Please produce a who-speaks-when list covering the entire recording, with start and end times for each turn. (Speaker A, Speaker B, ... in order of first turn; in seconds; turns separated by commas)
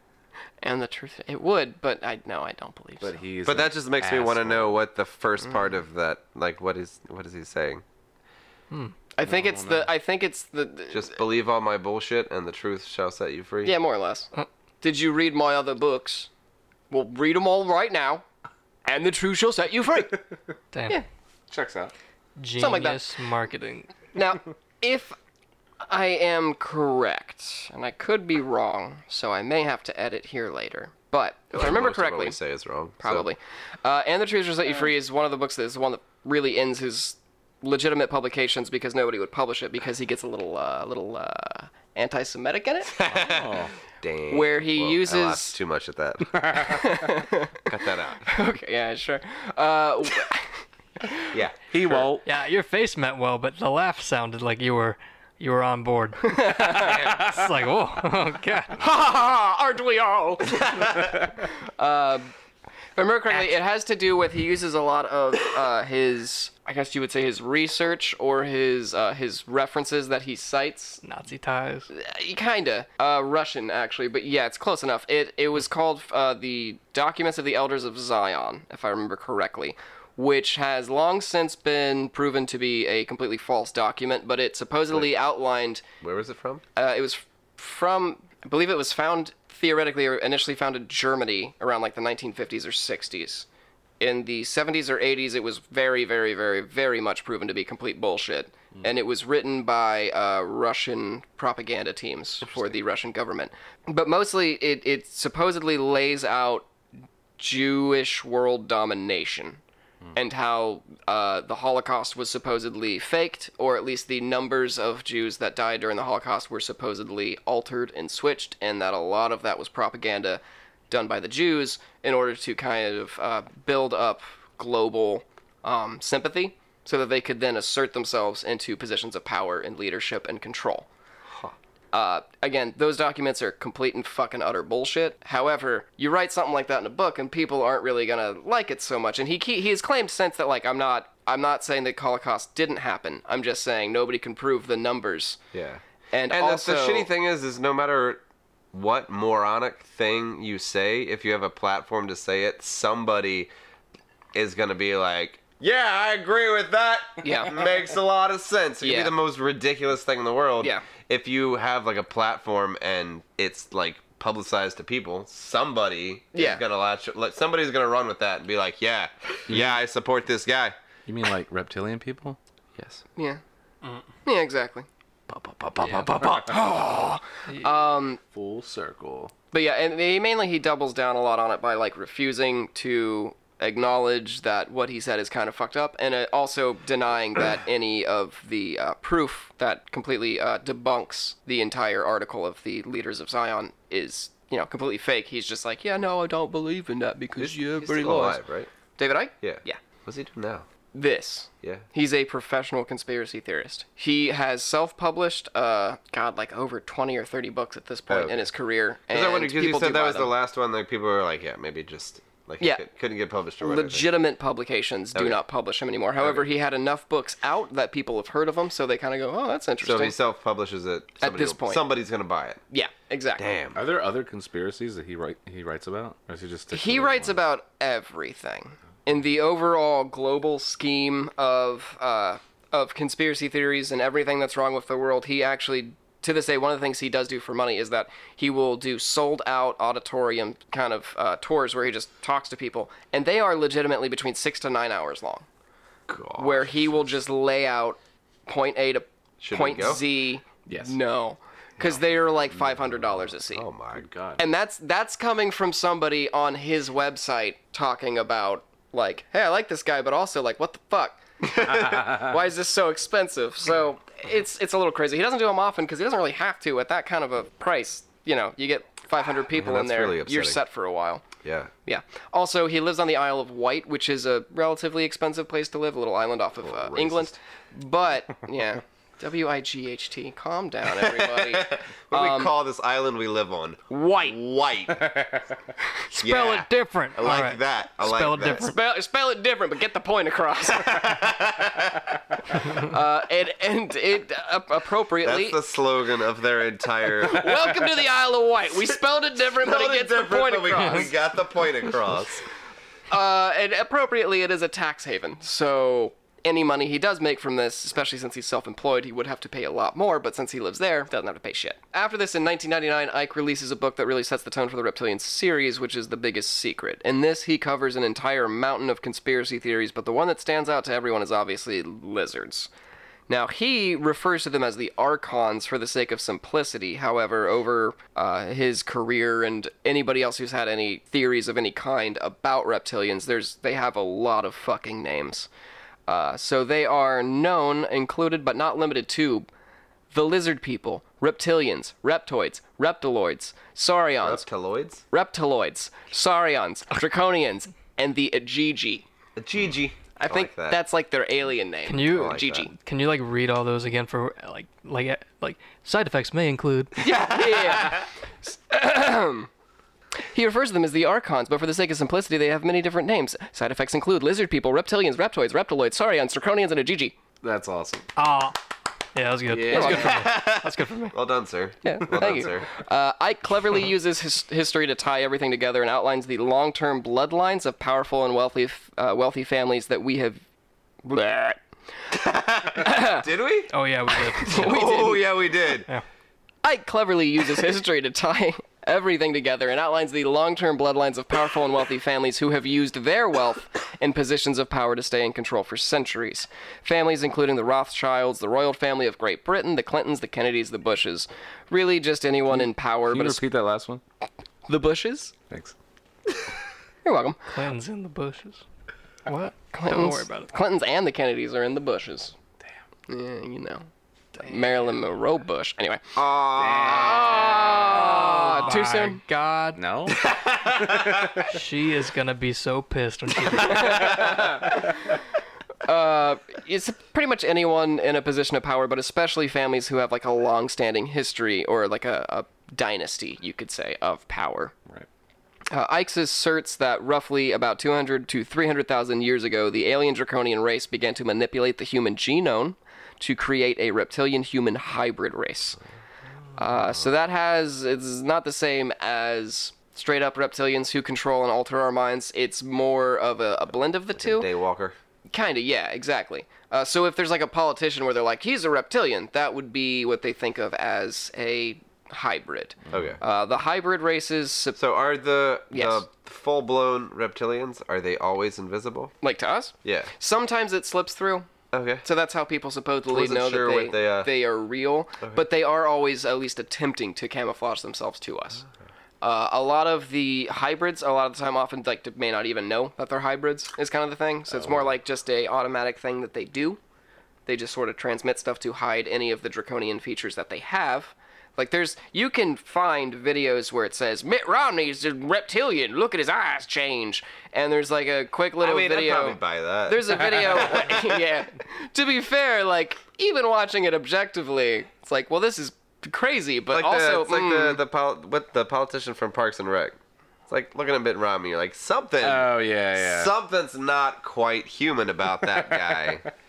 Speaker A: 0.6-3.2, Speaker B: 3.0-4.8, Speaker C: 3.4-7.8, Speaker A: 9.1-11.2, Speaker B: 9.2-9.9, Speaker C: 10.9-13.7, Speaker A: 13.6-14.3, Speaker A: 14.8-16.3, Speaker A: 16.9-18.2, Speaker A: 18.8-20.2, Speaker D: 20.7-21.0, Speaker B: 21.5-21.9, Speaker D: 22.4-23.9, Speaker A: 22.6-23.1, Speaker A: 24.1-25.1, Speaker A: 25.9-32.4, Speaker C: 31.5-33.3, Speaker A: 33.0-43.0, Speaker C: 42.9-46.8, Speaker B: 43.1-43.7, Speaker A: 44.3-45.6, Speaker B: 46.4-46.8, Speaker A: 46.7-47.5, Speaker C: 47.6-48.2, Speaker A: 48.2-51.2, Speaker C: 51.3-52.1, Speaker B: 51.7-52.2, Speaker D: 52.2-58.8, Speaker A: 56.2-57.0, Speaker A: 58.8-62.3, Speaker A: 63.0-71.0, Speaker D: 71.0-71.9, Speaker A: 71.9-85.8, Speaker C: 86.0-86.6, Speaker A: 86.8-93.5, Speaker A: 94.0-106.7, Speaker C: 102.4-102.7, Speaker A: 107.4-109.6, Speaker A: 110.1-130.9, Speaker A: 131.9-145.4, Speaker C: 145.5-148.2, Speaker A: 146.1-147.1, Speaker C: 148.7-153.5, Speaker C: 154.3-170.7, Speaker A: 157.2-157.6, Speaker A: 158.8-159.1, Speaker A: 166.3-166.6, Speaker B: 169.5-169.7, Speaker B: 171.1-172.4, Speaker C: 172.8-173.0, Speaker A: 173.2-173.4, Speaker A: 174.2-174.9, Speaker C: 175.3-176.5, Speaker B: 175.9-176.4, Speaker A: 176.2-178.2, Speaker B: 178.3-179.3, Speaker A: 179.5-198.4, Speaker C: 197.4-198.7, Speaker A: 199.0-199.8, Speaker C: 199.4-200.7, Speaker A: 200.9-210.3, Speaker C: 208.1-208.5, Speaker C: 209.1-214.1, Speaker A: 212.6-212.8, Speaker A: 213.6-220.2, Speaker C: 215.1-215.4, Speaker C: 216.2-216.5, Speaker C: 219.8-222.6, Speaker A: 221.2-221.8, Speaker A: 222.7-223.6, Speaker C: 223.4-223.8, Speaker B: 223.7-227.4, Speaker A: 226.7-245.4, Speaker C: 246.1-247.1, Speaker A: 246.4-253.7, Speaker C: 249.4-250.0, Speaker B: 250.7-250.9, Speaker B: 252.6-253.0, Speaker C: 253.5-254.1, Speaker B: 253.9-254.4, Speaker A: 254.4-271.2, Speaker C: 269.5-270.6, Speaker C: 271.4-271.7, Speaker A: 271.9-282.5, Speaker C: 276.6-277.3, Speaker C: 281.0-285.1, Speaker A: 283.9-284.4, Speaker B: 285.0-285.5, Speaker D: 286.1-288.7, Speaker C: 286.1-288.6, Speaker A: 288.5-291.1, Speaker C: 290.8-292.2, Speaker A: 292.6-295.6, Speaker C: 295.2-297.6, Speaker A: 297.2-301.1, Speaker C: 299.4-302.4, Speaker A: 303.1-322.7, Speaker A: 323.3-335.5, Speaker A: 336.1-339.5, Speaker A: 340.1-344.4, Speaker C: 344.2-345.0, Speaker A: 345.1-349.0, Speaker C: 349.4-350.8, Speaker A: 350.2-352.7, Speaker D: 351.9-357.0, Speaker C: 352.0-352.7, Speaker A: 357.0-359.5, Speaker C: 357.2-358.0, Speaker A: 360.3-367.2, Speaker B: 367.4-368.1, Speaker D: 368.1-368.6, Speaker D: 369.1-371.1, Speaker B: 369.5-370.3, Speaker A: 369.7-370.1, Speaker C: 369.8-372.7, Speaker A: 371.8-380.4, Speaker A: 381.0-381.6, Speaker C: 382.1-383.7, Speaker A: 382.7-383.3, Speaker D: 383.7-385.2, Speaker C: 384.4-385.9, Speaker A: 384.4-385.2, Speaker A: 386.6-403.4, Speaker B: 402.5-404.0, Speaker A: 404.7-405.3, Speaker A: 407.0-407.5, Speaker D: 407.5-408.6, Speaker D: 409.3-410.5, Speaker A: 409.6-412.3, Speaker A: 413.1-419.2, Speaker C: 416.1-418.1, Speaker B: 416.6-417.7, Speaker D: 417.9-419.8, Speaker B: 419.7-420.3, Speaker C: 420.1-421.3, Speaker B: 420.8-421.4, Speaker D: 421.4-424.3, Speaker A: 423.6-424.8, Speaker A: 425.8-434.7, Speaker A: 435.7-445.8, Speaker A: 446.6-454.5, Speaker C: 454.1-454.9, Speaker A: 455.3-464.8, Speaker B: 462.9-463.2, Speaker C: 462.9-463.2, Speaker C: 464.8-469.1, Speaker A: 465.7-466.0, Speaker A: 469.2-471.5, Speaker C: 469.8-470.1, Speaker C: 471.7-472.0, Speaker A: 472.0-478.6, Speaker C: 473.1-474.3, Speaker A: 479.2-486.8, Speaker B: 484.5-484.8, Speaker A: 487.4-507.8, Speaker C: 498.6-501.0, Speaker C: 506.7-516.2, Speaker B: 512.2-513.3, Speaker B: 515.7-516.2